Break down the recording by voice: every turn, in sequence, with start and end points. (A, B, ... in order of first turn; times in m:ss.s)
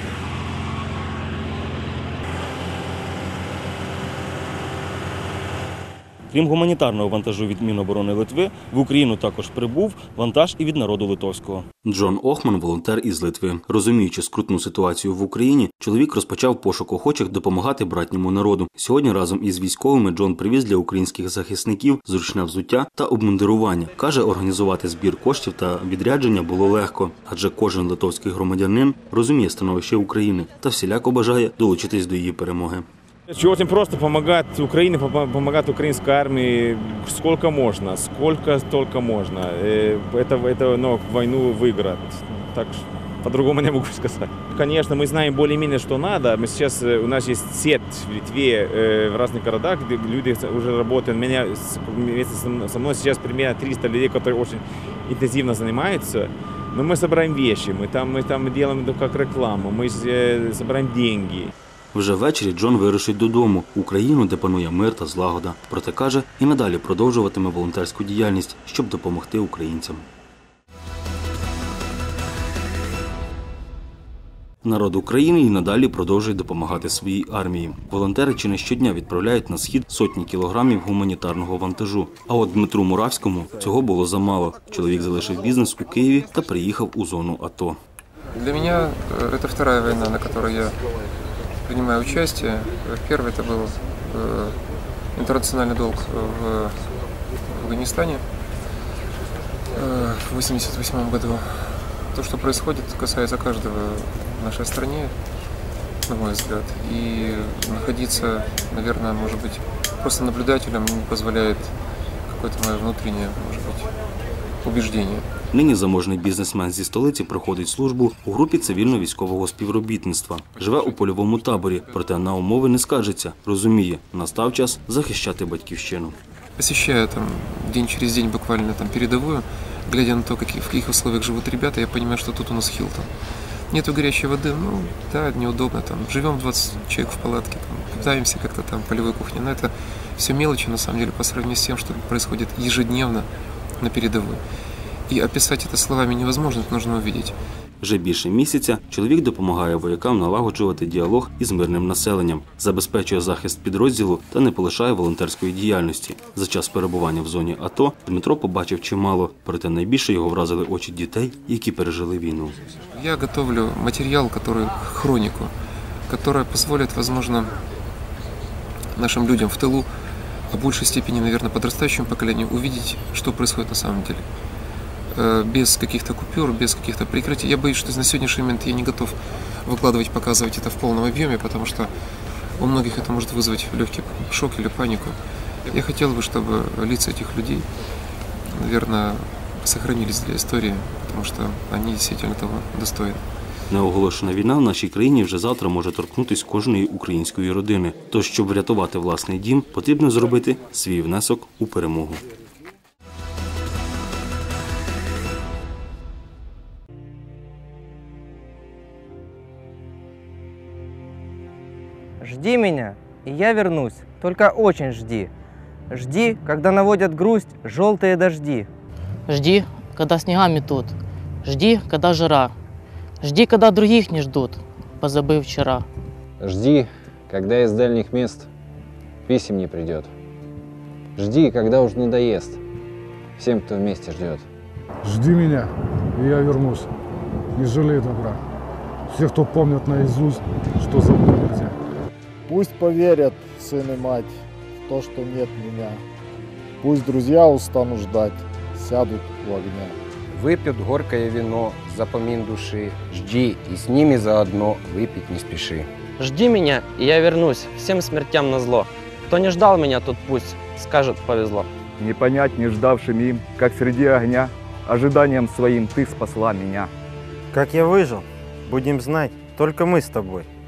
0:06.3-0:32.9 A
0:33.3-1:01.5 B
1:01.9-1:10.0 A
1:14.6-1:27.8 A
1:28.3-1:30.8 C
1:31.6-1:34.6 C
1:35.1-1:36.8 C
1:37.5-1:38.2 C
1:39.7-1:45.1 C
1:46.1-1:51.7 C
1:52.3-1:53.9 C
1:54.6-1:55.2 C
1:55.5-2:06.2 A
2:06.6-2:13.1 C
2:13.7-2:23.3 C
2:23.8-2:24.4 C
2:25.1-2:27.3 C
2:27.8-2:42.6 A
2:42.9-2:45.5 C
2:46.1-2:47.6 C
2:48.9-2:49.9 C
2:50.5-2:54.2 C
2:55.1-3:01.9 C
3:02.6-3:07.7 C
3:08.5-3:13.2 C
3:13.7-3:22.2 A
3:32.2-3:35.3 D
3:35.9-3:38.7 D
3:39.3-3:42.5 E
3:43.2-3:45.8 E
3:46.4-3:48.5 F
3:49.3-3:50.1 F
3:51.2-3:52.6 F
3:53.4-3:54.4 F
3:55.1-3:56.7 G
3:57.6-3:58.3 G
3:59.8-4:01.7 G
4:02.5-4:04.3 H
4:04.9-4:06.0 H
4:06.8-4:10.0 H
4:10.3-4:15.9 I
4:16.2-4:21.7 J
4:22.0-4:26.9 K
4:27.5-4:30.5 L